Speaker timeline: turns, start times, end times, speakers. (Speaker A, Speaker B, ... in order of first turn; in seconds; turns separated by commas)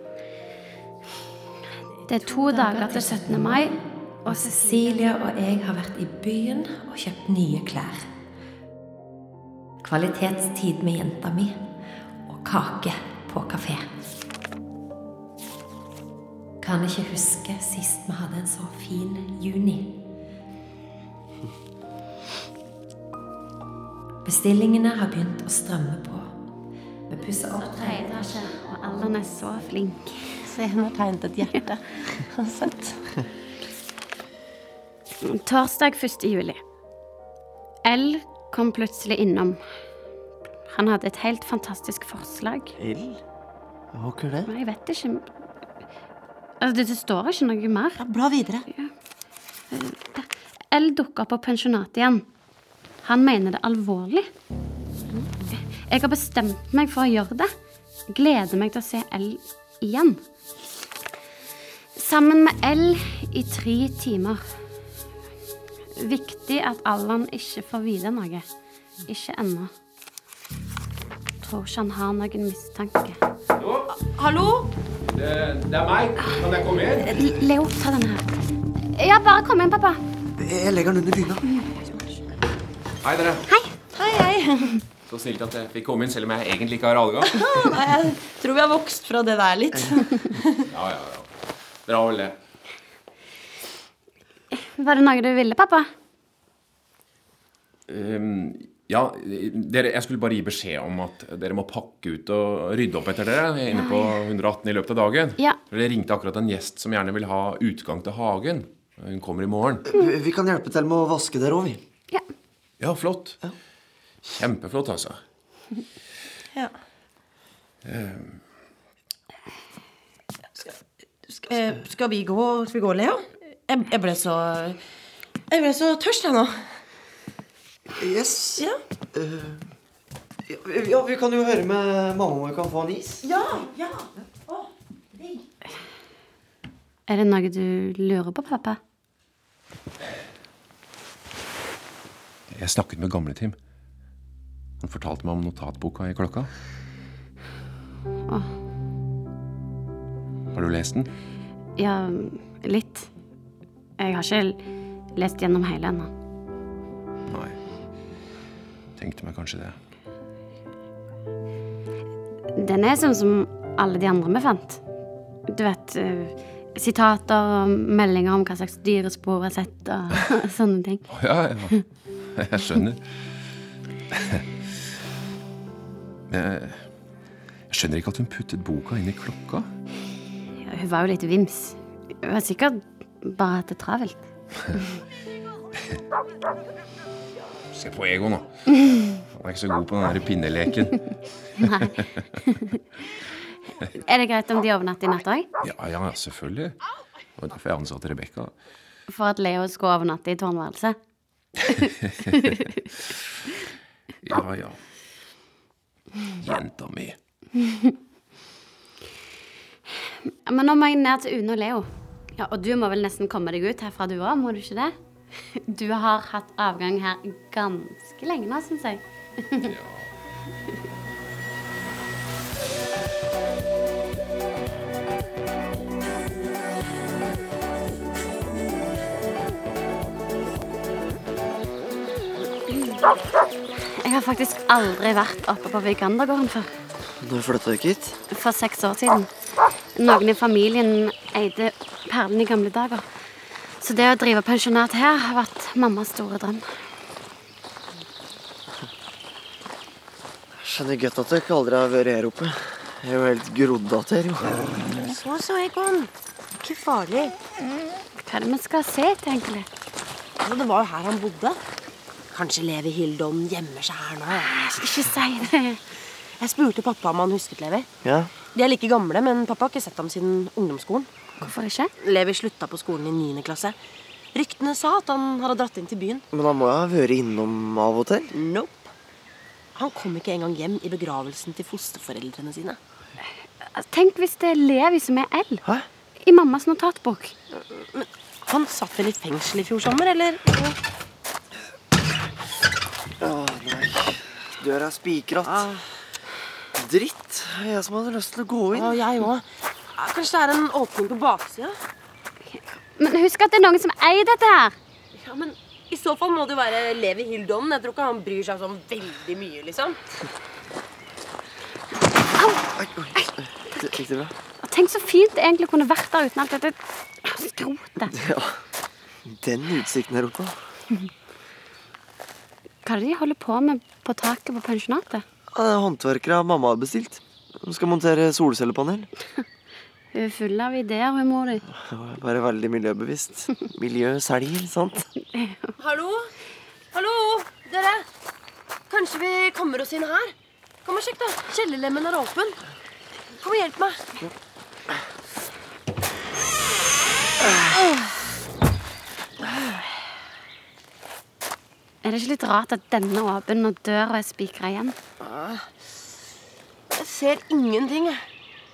Speaker A: 2.1-3.7, Speaker B: 2.3-3.7, Speaker B: 4.3-8.1, Speaker A: 4.3-4.7, Speaker B: 9.8-11.6, Speaker B: 12.3-13.9, Speaker B: 16.6-19.9, Speaker B: 24.2-26.3, Speaker B: 27.1-28.4, Speaker A: 27.6-30.3, Speaker C: 30.4-33.1, Speaker A: 35.2-36.6, Speaker A: 37.9-39.6, Speaker A: 40.7-42.7, Speaker D: 42.8-43.2, Speaker D: 43.9-44.5, Speaker A: 44.5-45.3, Speaker A: 46.6-48.0, Speaker C: 48.0-48.7, Speaker A: 49.7-52.2, Speaker A: 53.0-54.3, Speaker A: 55.8-57.5, Speaker A: 58.1-60.2, Speaker A: 62.0-64.4, Speaker A: 66.0-68.5, Speaker A: 69.1-69.7, Speaker A: 71.4-73.2, Speaker E: 73.6-73.9, Speaker C: 73.9-74.7, Speaker E: 75.1-77.3, Speaker A: 77.0-78.3, Speaker A: 79.0-80.0, Speaker D: 80.4-81.5, Speaker C: 81.8-82.1, Speaker E: 83.0-83.5, Speaker A: 83.5-83.7, Speaker C: 84.0-84.8, Speaker E: 85.1-87.5, Speaker C: 87.3-90.7, Speaker E: 90.7-91.3, Speaker E: 91.9-92.4, Speaker A: 94.5-95.9, Speaker E: 97.9-109.8, Speaker A: 103.7-104.1, Speaker D: 109.8-111.8, Speaker E: 112.8-113.4, Speaker E: 114.3-115.2, Speaker E: 117.8-118.4, Speaker C: 121.3-124.8, Speaker C: 125.5-126.6, Speaker D: 127.9-129.6, Speaker D: 130.5-133.2, Speaker C: 133.2-135.5, Speaker A: 137.1-138.8, Speaker E: 142.5-143.6, Speaker E: 144.8-146.5, Speaker E: 150.5-151.1, Speaker A: 151.8-153.1, Speaker A: 154.0-154.6, Speaker A: 155.2-156.1, Speaker E: 157.3-157.6, Speaker E: 159.0-159.8, Speaker A: 162.6-164.8, Speaker A: 165.5-171.1, Speaker E: 171.1-171.8, Speaker E: 172.4-173.0, Speaker E: 174.1-174.4, Speaker E: 176.3-176.8, Speaker E: 177.7-179.7, Speaker A: 180.6-184.2, Speaker E: 187.7-188.5, Speaker E: 189.0-191.0, Speaker A: 191.6-192.8, Speaker E: 191.6-192.0, Speaker A: 193.9-195.5, Speaker E: 195.6-196.8, Speaker E: 197.4-198.5, Speaker A: 199.1-201.0, Speaker A: 201.7-202.8, Speaker E: 204.2-204.8, Speaker E: 206.4-207.2, Speaker A: 210.3-214.9, Speaker A: 215.5-219.7, Speaker E: 219.6-220.1, Speaker A: 233.8-236.7, Speaker D: 237.2-238.2, Speaker A: 238.3-239.3, Speaker A: 240.0-243.1, Speaker A: 243.8-246.7, Speaker D: 250.6-254.9, Speaker C: 254.9-257.4, Speaker A: 258.2-259.7, Speaker C: 260.4-261.6, Speaker C: 262.3-264.5, Speaker A: 264.5-265.8, Speaker C: 266.4-267.9, Speaker D: 268.0-268.3, Speaker C: 268.5-271.1, Speaker A: 271.4-271.9, Speaker C: 272.0-273.8, Speaker C: 274.3-276.2, Speaker D: 276.3-278.3, Speaker C: 278.3-278.9, Speaker C: 279.8-282.8, Speaker A: 283.7-285.6, Speaker A: 286.2-287.4, Speaker C: 287.6-290.8, Speaker D: 293.2-295.7, Speaker C: 295.5-295.8, Speaker D: 296.8-299.0, Speaker C: 298.7-301.8, Speaker A: 302.5-304.8, Speaker C: 305.1-310.0, Speaker D: 312.6-314.4, Speaker A: 314.6-318.2, Speaker D: 318.1-318.6, Speaker D: 319.3-320.6, Speaker A: 322.9-325.2, Speaker D: 325.5-329.1, Speaker A: 330.1-331.6, Speaker D: 331.7-335.1, Speaker A: 335.3-335.7, Speaker C: 335.8-336.3, Speaker C: 336.9-338.1, Speaker C: 338.9-340.3, Speaker C: 340.9-342.6, Speaker C: 343.4-344.1, Speaker A: 352.0-354.9, Speaker C: 355.2-355.7, Speaker C: 356.9-358.2